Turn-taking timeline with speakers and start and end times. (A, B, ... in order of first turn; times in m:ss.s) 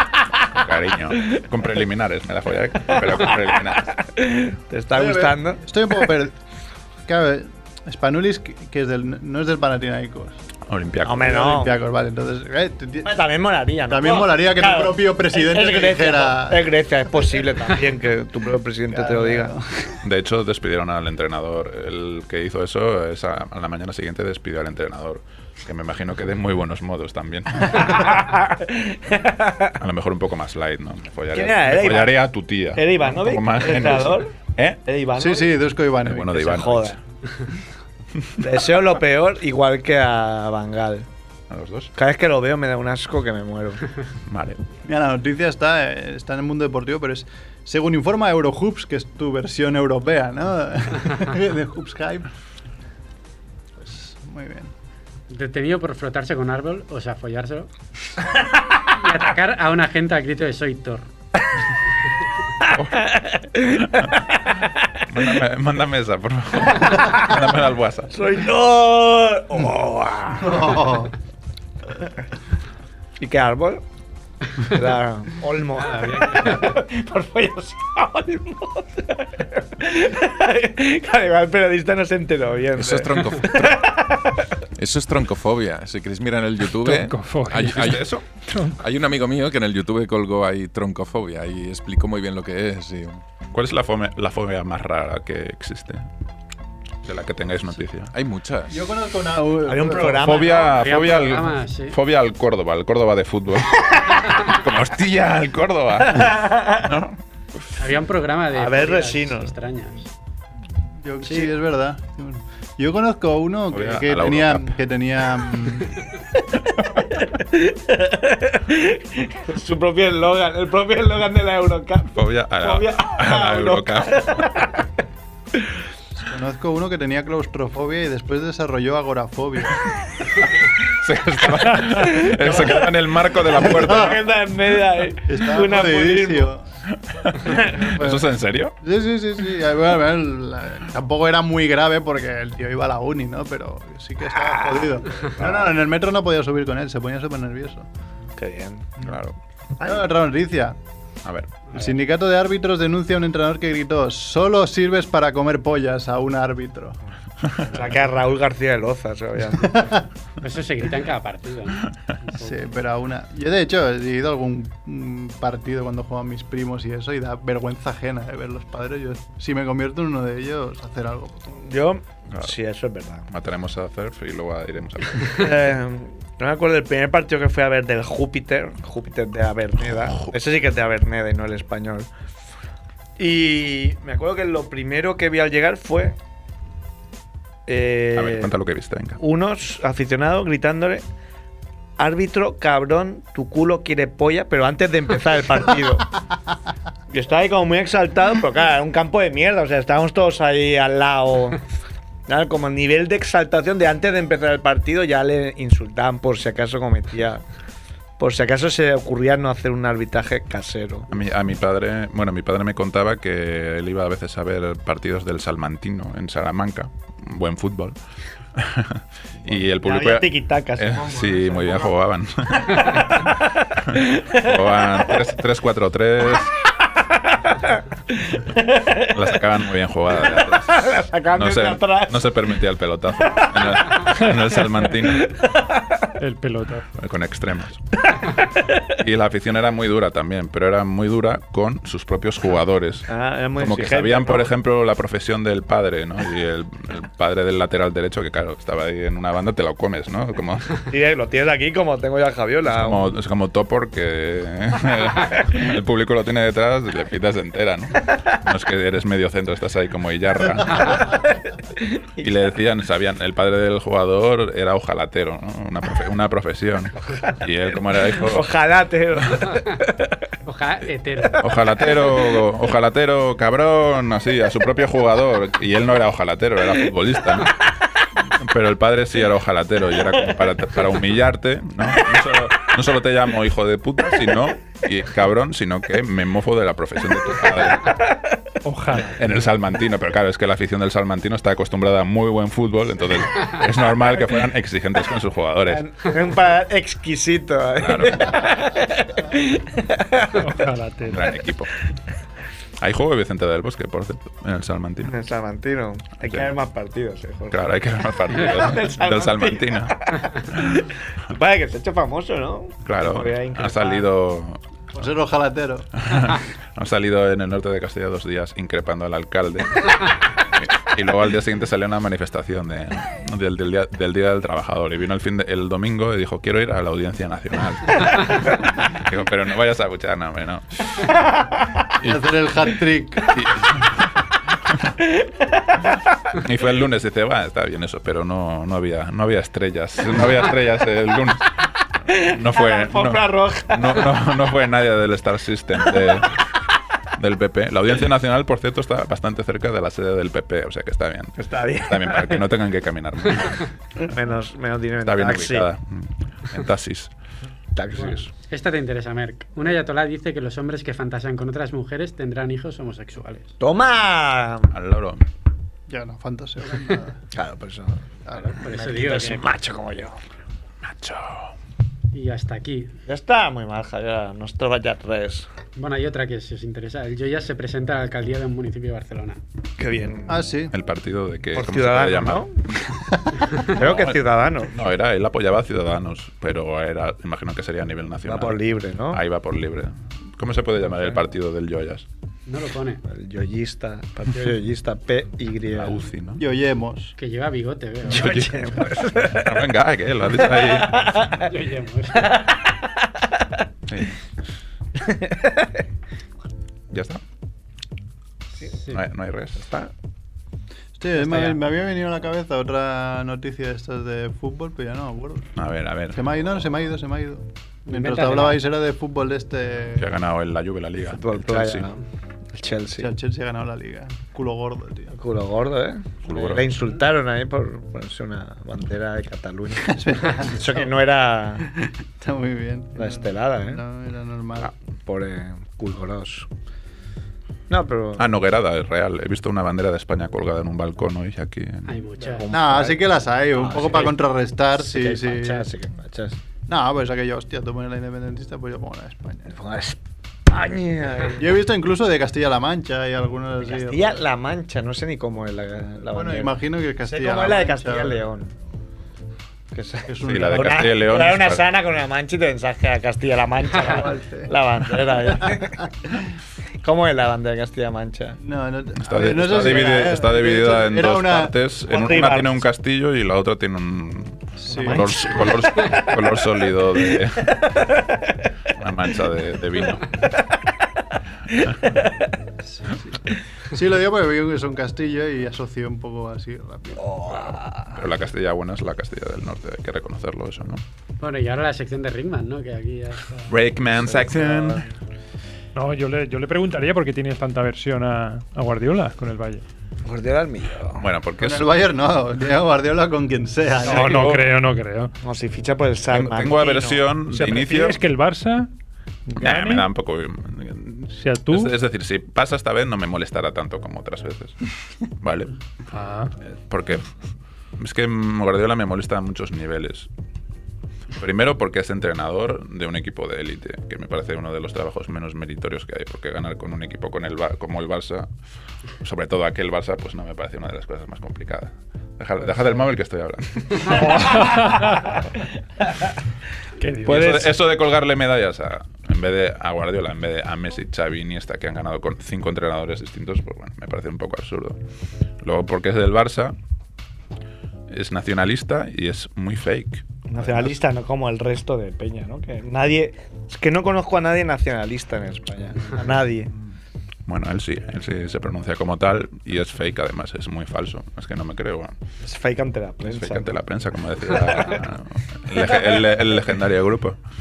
0:00.4-0:03.9 A
0:03.7-0:05.6 B
0:04.9-0:06.3 C
0:07.1-0:10.4 C
0:10.7-0:11.2 A
0:11.0-0:11.7 B
0:11.2-0:13.1 C
0:13.0-0:19.5 B
0:13.9-0:16.7 C
0:18.9-0:20.0 C
0:20.0-0:28.2 A
0:27.7-0:29.7 B
0:29.8-0:34.8 A
0:31.3-0:32.2 B
0:32.7-0:34.3 B
0:34.8-0:35.6 B
0:35.2-0:36.5 C
0:36.0-0:37.0 A
0:36.3-0:37.0 B
0:38.4-0:41.1 B
0:41.5-0:41.9 A
0:41.9-0:43.8 B
0:44.3-0:44.6 A
0:44.8-0:52.3 C
0:53.8-0:54.7 C
0:55.3-0:57.7 D
0:58.8-1:01.1 D
1:02.6-1:04.8 B
1:02.7-1:03.1 A
1:03.8-1:04.1 A
1:05.1-1:08.1 A
1:06.9-1:07.2 B
1:08.1-1:10.8 B
1:10.4-1:11.1 C
1:13.2-1:13.8 B
1:14.6-1:24.4 B
1:15.8-1:16.8 D
1:22.7-1:23.9 E
1:24.8-1:33.2 E
1:26.8-1:28.8 F
1:27.7-1:28.2 A
1:33.5-1:36.0 A
1:37.0-1:38.1 A
1:38.1-1:38.8 E
1:38.7-1:40.5 C
1:39.6-1:40.7 B
1:40.2-1:47.2 A
1:40.7-1:42.0 D
1:46.1-1:46.8 B
1:47.8-1:50.1 D
1:48.5-1:49.5 B
1:51.0-1:56.0 C
1:53.7-1:54.7 A
1:57.1-2:04.8 B
2:02.2-2:04.6 A
2:06.2-2:09.9 C
2:10.6-2:14.2 A
2:12.0-2:16.5 B
2:12.4-2:12.9 C
2:13.5-2:14.2 C
2:15.3-2:16.6 C
2:17.2-2:18.8 A
2:17.4-2:17.8 B
2:17.4-2:27.9 C
2:24.3-2:25.7 B
2:28.4-2:28.9 B
2:29.0-2:29.3 A
2:29.8-2:30.1 B
2:29.8-2:30.8 C
2:31.2-2:31.5 A
2:31.7-2:37.0 C
2:37.7-2:39.9 B
2:39.6-2:40.0 C
2:40.4-2:42.6 D
2:42.4-2:51.6 C
2:51.6-2:53.3 B
2:53.3-2:55.5 A
2:55.3-3:02.1 B
3:00.0-3:00.3 A
3:03.2-3:06.1 B
3:07.7-3:08.5 B
3:08.1-3:09.2 A
3:09.2-3:11.0 B
3:12.0-3:16.1 B
3:17.1-3:21.6 B
3:22.3-3:27.4 B
3:28.2-3:31.1 B
3:31.1-3:38.0 A
3:38.5-3:46.5 A
3:39.4-3:41.9 B
3:43.0-3:44.8 B
3:46.9-3:49.2 B
3:49.1-3:55.4 A
3:50.1-3:52.3 B
3:53.3-3:54.0 B
3:55.1-3:56.1 B
3:56.2-3:56.8 F
3:57.0-3:58.0 A
3:58.1-3:58.8 B
3:58.9-4:10.8 A
4:03.1-4:04.5 B
4:10.9-4:13.2 B
4:12.7-4:21.2 A
4:21.0-4:22.3 B
4:22.2-4:28.5 A
4:28.2-4:30.2 B
4:30.4-4:31.4 D
4:31.4-4:37.6 A
4:38.3-4:48.0 A
4:47.8-4:48.4 B
4:48.6-4:49.2 F
4:49.1-4:55.8 A
4:55.7-5:00.4 B
4:57.8-4:58.5 A
5:00.4-5:01.3 F
5:01.1-5:01.7 A
5:02.8-5:05.1 A
5:05.0-5:14.1 B
5:07.5-5:10.0 A
5:12.8-5:14.6 A
5:14.9-5:16.0 C
5:16.0-5:31.1 A
5:31.1-5:31.8 B
5:32.0-5:33.4 C
5:33.3-5:34.9 A
5:35.0-5:36.0 B
5:36.3-5:46.4 A
5:42.1-5:44.1 B
5:47.1-5:53.7 A
5:51.4-5:52.4 B
5:54.0-5:55.7 B
5:55.0-5:57.1 A
5:57.8-5:58.3 B
5:57.9-6:03.5 D
6:03.6-6:04.7 B
6:04.7-6:05.2 A
6:05.9-6:07.2 C
6:07.3-6:10.2 B
6:08.3-6:08.6 C
6:08.4-6:09.5 D
6:10.8-6:11.5 A
6:12.1-6:12.9 D
6:13.0-6:15.5 B
6:15.8-6:19.4 D
6:19.8-6:20.4 B
6:20.3-6:20.7 C
6:20.7-6:22.8 A
6:21.5-6:22.6 B
6:23.6-6:24.7 B
6:23.6-6:28.6 A
6:28.2-6:29.2 B
6:29.1-6:32.0 A
6:32.4-6:33.0 D
6:33.0-6:36.0 B
6:35.7-6:36.4 A
6:36.4-6:37.2 C
6:37.2-6:38.4 D
6:38.1-6:39.7 B
6:38.1-6:41.2 A
6:40.4-6:41.5 B
6:41.3-6:42.5 D
6:42.1-6:43.6 B
6:43.9-6:44.1 A
6:45.0-6:45.8 B
6:46.9-6:47.2 A
6:48.9-6:49.6 A
6:49.6-6:49.9 B
6:51.0-6:55.5 C
6:51.2-6:51.6 D
6:55.6-6:56.2 A
6:56.1-7:00.1 C
6:57.9-6:58.6 D
7:00.0-7:01.9 A
7:01.0-7:02.0 B
7:02.5-7:03.1 B
7:03.0-7:05.1 C
7:05.1-7:11.7 B
7:06.2-7:06.6 A
7:09.8-7:10.9 C
7:11.7-7:14.7 C
7:13.0-7:13.8 B
7:15.0-7:16.5 B
7:17.7-7:18.3 B
7:18.2-7:22.0 A
7:21.8-7:22.5 D
7:22.2-7:26.4 B
7:22.5-7:25.7 C
7:26.7-7:29.5 C
7:29.5-7:31.6 B
7:31.4-7:34.2 C
7:33.6-7:38.5 B
7:36.1-7:38.2 C
7:39.7-7:45.9 B
7:40.1-7:40.9 C
7:40.2-7:41.6 A
7:43.7-7:45.6 C
7:46.8-7:48.4 B
7:48.4-7:51.5 C
7:49.0-7:57.8 A
7:49.4-7:50.0 B
7:51.9-7:52.6 B
7:54.6-7:55.5 C
7:54.7-7:56.4 B
7:57.1-7:58.4 B
7:58.8-8:00.2 A
8:00.4-8:00.7 B
8:01.5-8:02.2 B
8:02.7-8:07.7 C
8:07.0-8:07.9 B
8:07.9-8:10.8 A
8:11.2-8:13.5 D
8:13.5-8:14.8 A
8:14.0-8:14.8 B
8:15.7-8:19.6 F
8:20.0-8:21.0 B
8:21.0-8:21.7 A
8:21.4-8:24.4 C
8:23.8-8:25.1 F
8:23.8-8:24.5 B
8:25.2-8:27.1 B
8:26.1-8:28.0 A
8:27.3-8:28.7 F
8:29.3-8:29.9 F
8:29.4-8:34.7 A
8:31.1-8:31.7 F
8:35.2-8:35.5 A
8:35.9-8:36.3 F
8:36.7-8:37.0 A
8:37.8-8:40.1 A
8:41.2-8:48.3 A
8:49.0-8:54.8 A
8:54.3-8:54.9 F
8:54.5-8:55.0 B
8:56.8-8:57.5 F
8:57.0-8:57.5 B
8:57.0-9:04.8 A
9:05.4-9:06.5 A
9:07.9-9:10.7 A
9:10.3-9:16.5 B
9:17.3-9:22.0 A
9:22.2-9:23.5 B
9:23.0-9:27.2 A
9:24.3-9:24.7 B